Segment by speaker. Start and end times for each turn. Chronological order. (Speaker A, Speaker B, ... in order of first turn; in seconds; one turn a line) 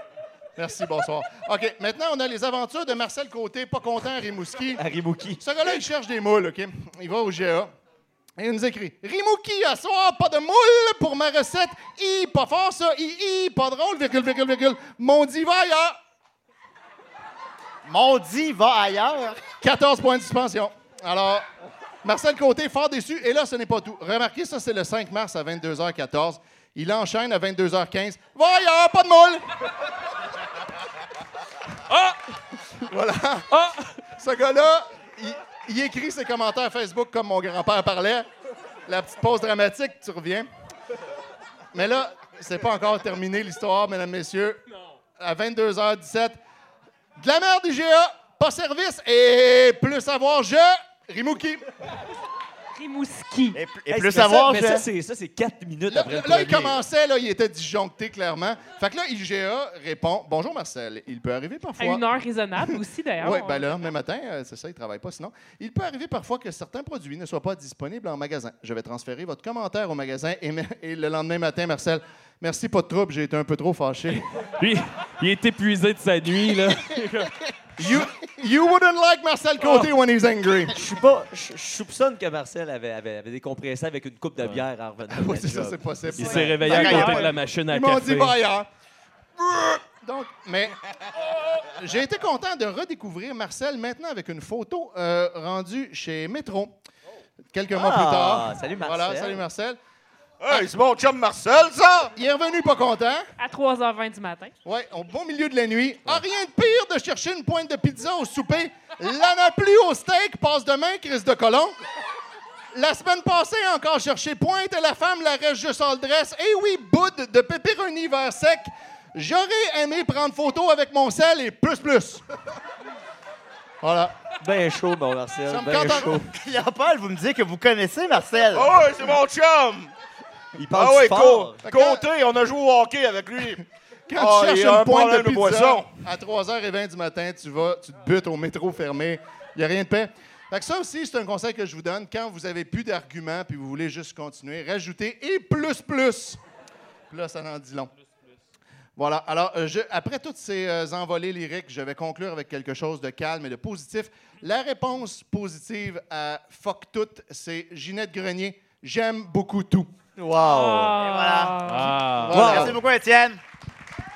Speaker A: 0.6-4.8
Speaker B: 4.8-5.4
Speaker A: 5.4-7.7
Speaker A: 8.4-16.0
Speaker C: 17.8-19.4
Speaker A: 19.6-21.5
Speaker A: 22.0-29.5
Speaker D: 31.9-32.2
Speaker A: 32.8-33.5
Speaker D: 33.5-34.0
Speaker A: 34.2-38.3
Speaker A: 38.9-40.5
Speaker A: 41.7-44.6
Speaker A: 45.2-46.4
Speaker A: 47.2-51.6
Speaker E: 52.7-53.6
Speaker C: 53.5-54.9
Speaker B: 53.9-56.8
Speaker A: 55.9-62.0
Speaker E: 61.8-63.8
Speaker A: 62.7-74.3
Speaker D: 74.6-77.3
Speaker A: 77.8-80.7
Speaker D: 79.6-79.9
Speaker B: 80.7-86.9
Speaker D: 84.4-84.6
Speaker A: 85.1-88.7
Speaker D: 86.2-88.4
Speaker C: 86.4-87.4
Speaker A: 90.0-90.8
Speaker A: 91.5-96.7
Speaker A: 97.5-99.8
Speaker B: 97.7-99.4
Speaker F: 100.4-102.1
Speaker A: 102.2-103.2
Speaker E: 103.4-104.5
Speaker A: 104.6-111.7
Speaker A: 112.7-122.2
Speaker A: 123.8-124.2
Speaker B: 124.4-126.3
Speaker A: 125.5-126.2
Speaker C: 126.3-128.8
Speaker F: 128.5-129.9
Speaker B: 130.5-131.6
Speaker F: 130.7-133.6
Speaker A: 131.6-132.0
Speaker A: 134.1-146.4
Speaker F: 134.2-135.9
Speaker A: 147.1-147.9
Speaker A: 149.0-159.9
Speaker B: 160.2-161.0
Speaker E: 160.4-162.1
Speaker C: 160.9-161.5
Speaker D: 161.6-162.5
Speaker A: 162.1-162.8
Speaker B: 162.3-162.8
Speaker C: 162.3-163.4